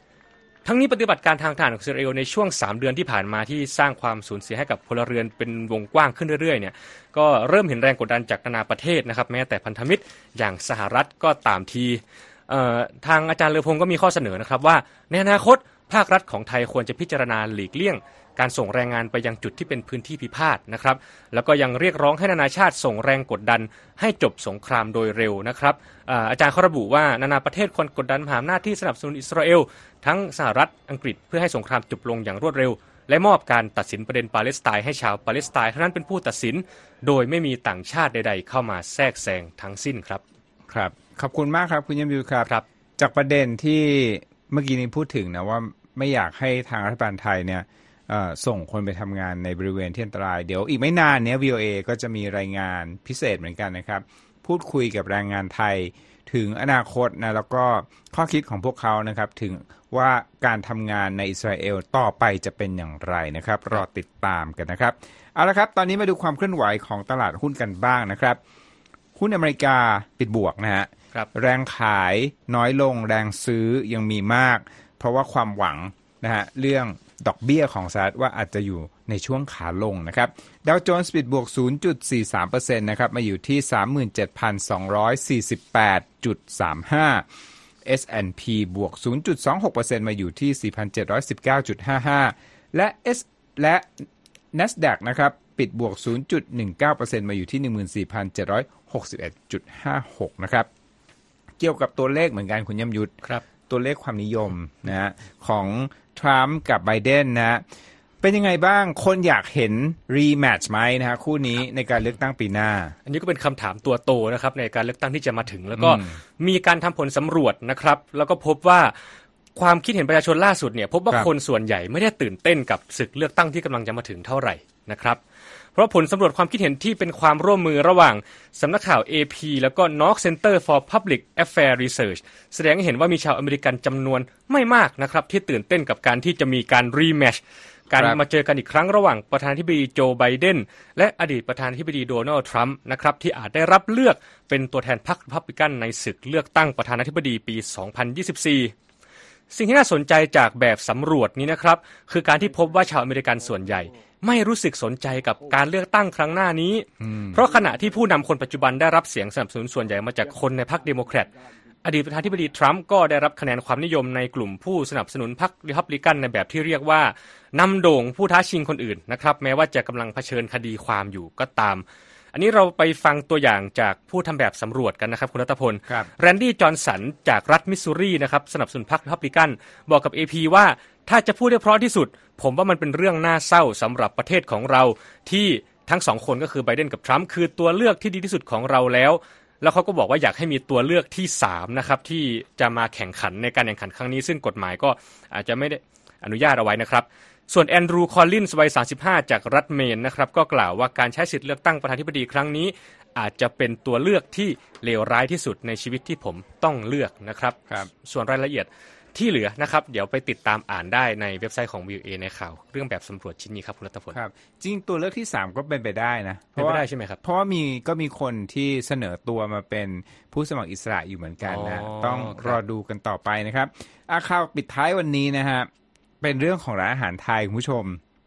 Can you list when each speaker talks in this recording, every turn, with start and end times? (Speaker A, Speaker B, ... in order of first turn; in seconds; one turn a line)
Speaker A: 0.7-40.2
Speaker B: 40.7-68.4
Speaker B: 69.2-87.3
Speaker B: 87.8-100.7
Speaker B: 101.6-107.6
Speaker B: 108.2-113.0
Speaker A: 113.1-119.0
Speaker B: 115.8-116.2
Speaker A: 119.6-125.2
Speaker A: 125.8-148.7
Speaker B: 137.9-138.2
Speaker A: 149.5-161.3
Speaker B: 157.0-157.4
Speaker A: 161.8-214.2
Speaker B: 214.1-225.7
Speaker A: 216.6-217.2
Speaker A: 221.5-222.6
Speaker B: 226.2-228.0